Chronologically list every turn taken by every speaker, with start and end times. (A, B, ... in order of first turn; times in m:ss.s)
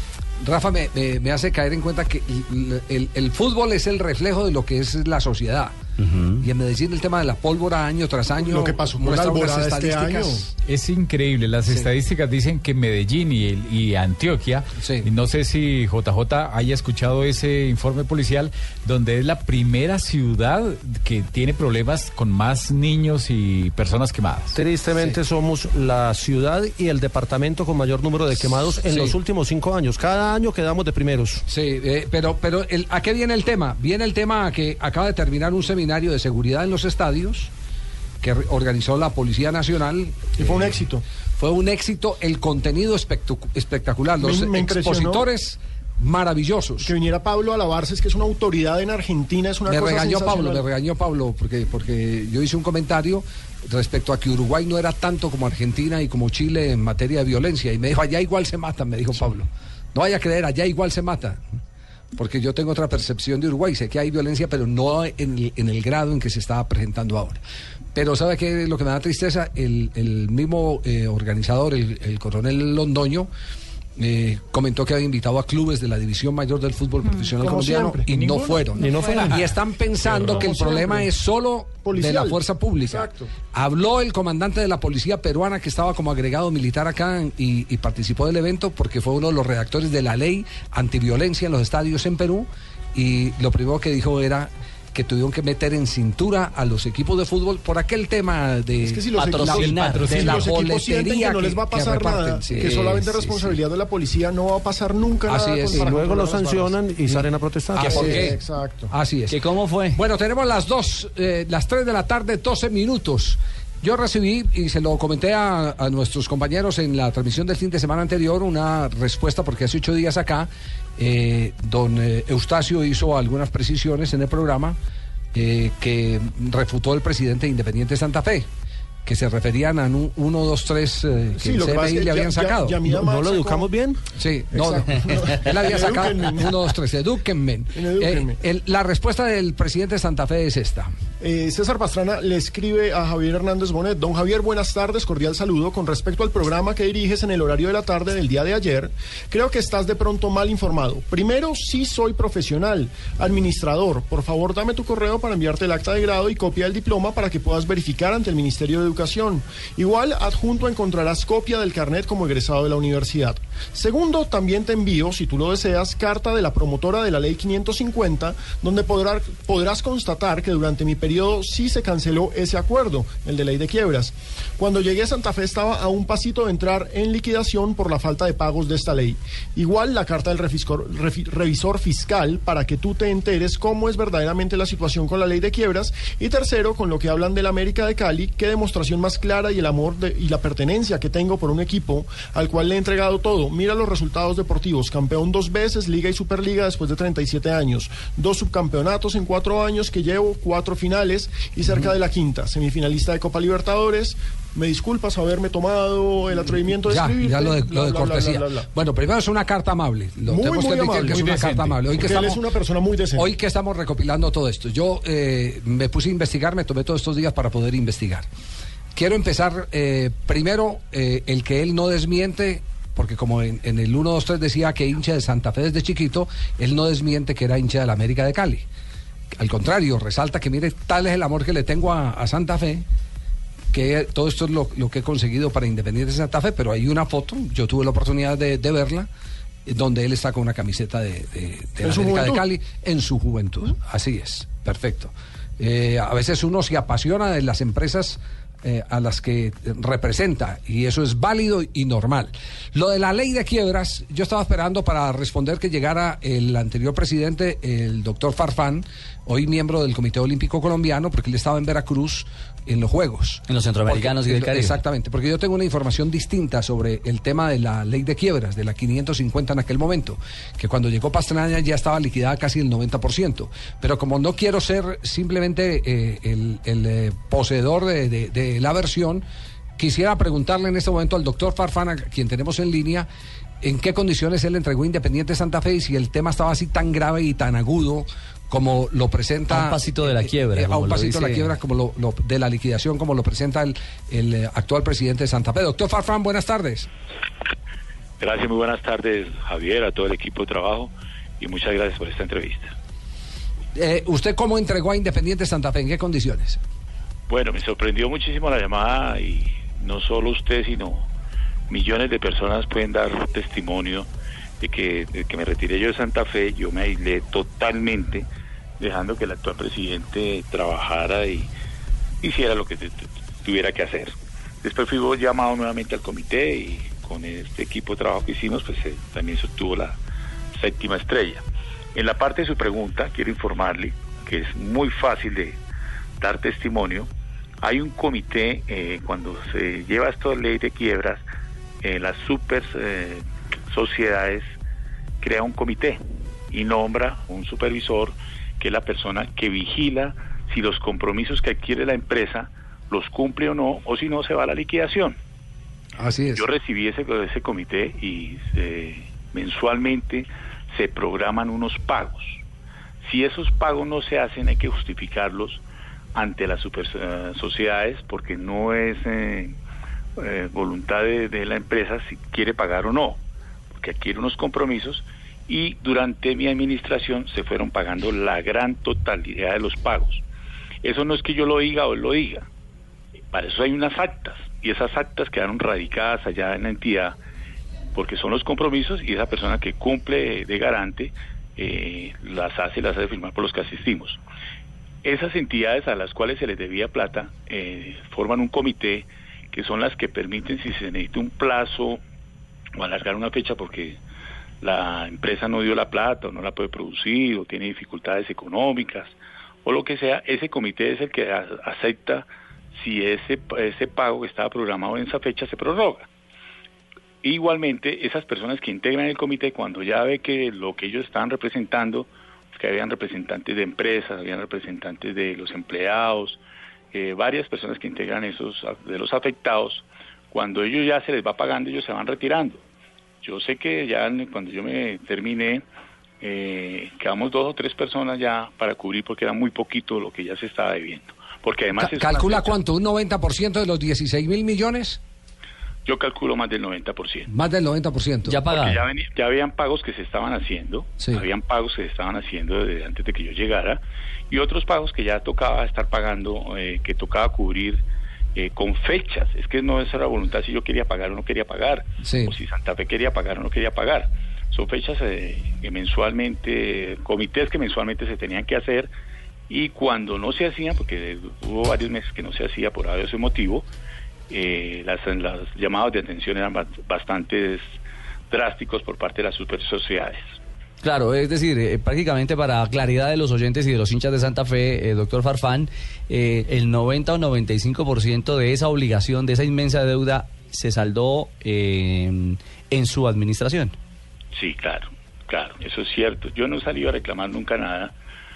0:00.4-0:05.7 A
0:06.0-0:06.4 B
0:06.4-0:10.5 A
0:08.4-0:10.4 C
0:10.6-0:24.6 D
0:14.8-0:15.1 A
0:24.5-0:31.4 E
0:28.8-0:29.2 A
0:31.5-0:37.5 A
0:38.2-0:40.8 A
0:40.4-0:41.0 C
0:41.4-0:46.9 A
0:44.2-0:45.3 C
0:46.8-0:50.6 C
0:49.7-1:01.4 A
1:02.1-1:07.4 A
1:07.9-1:13.3 A
1:14.0-1:43.5 A
1:17.4-1:18.0 C
1:18.7-1:19.4 E
1:20.0-1:21.1 C
1:21.8-1:23.3 C
1:38.8-1:46.8 C
1:39.1-1:40.4 B
1:39.8-1:40.3 D
1:42.5-1:43.5 B
1:45.3-1:45.9 A
1:45.8-1:48.0 E
1:47.1-1:49.4 A
1:47.8-1:48.3 B
1:47.9-1:48.9 C
1:49.3-1:50.0 B
1:49.9-2:04.8 A
2:05.3-2:08.5 A
2:09.0-2:12.8 A
2:11.4-2:13.7 C
2:12.9-2:14.0 E
2:14.2-2:20.9 A
2:14.5-2:16.6 C
2:17.7-2:18.4 C
2:21.2-3:28.7 C
3:26.8-3:32.4 A
3:30.2-3:31.4 C
3:31.0-3:32.2 D
3:31.9-3:33.3 C
3:33.2-3:38.3 A
3:38.9-3:48.6 A
3:49.3-3:52.8 A
3:53.7-3:59.1 A
3:59.6-4:39.2 A
4:01.8-4:02.4 C
4:23.5-4:24.8 B
4:39.8-4:43.1 A
4:43.6-4:56.9 A
4:49.5-4:51.5 B
4:58.2-5:02.7 F
5:03.7-5:06.6 A
5:07.3-5:11.1 F
5:11.7-5:14.1 F
5:14.6-5:18.3 F
5:18.8-5:21.5 F
5:22.2-5:30.0 F
5:30.6-5:31.4 F
5:31.9-5:35.6 F
5:36.2-5:37.1 F
5:37.6-5:41.2 F
5:41.8-5:44.5 F
5:45.2-5:55.2 F
5:56.0-5:56.4 A
5:56.4-6:02.4 F
6:03.0-6:05.6 F
6:06.1-6:09.6 F
6:10.2-6:13.2 F
6:13.7-6:20.2 F
6:20.8-6:22.4 F
6:23.3-6:27.2 F
6:27.9-6:34.2 F
6:35.0-6:42.0 F
6:42.8-6:44.0 F
6:44.6-6:56.0 F
6:57.2-7:06.4 F
7:06.9-7:12.6 F
7:13.2-7:15.6 F
7:16.2-7:22.6 F
7:21.8-7:25.0 A
7:25.8-7:27.3 F
7:27.3-7:28.4 A
7:28.2-7:28.8 B
7:28.5-7:37.8 F
7:38.4-7:48.9 F
7:42.0-7:42.3 A
7:49.5-7:53.6 F
7:54.3-7:57.7 F
7:58.3-8:00.3 F
8:00.8-8:13.7 B
8:14.3-8:17.9 F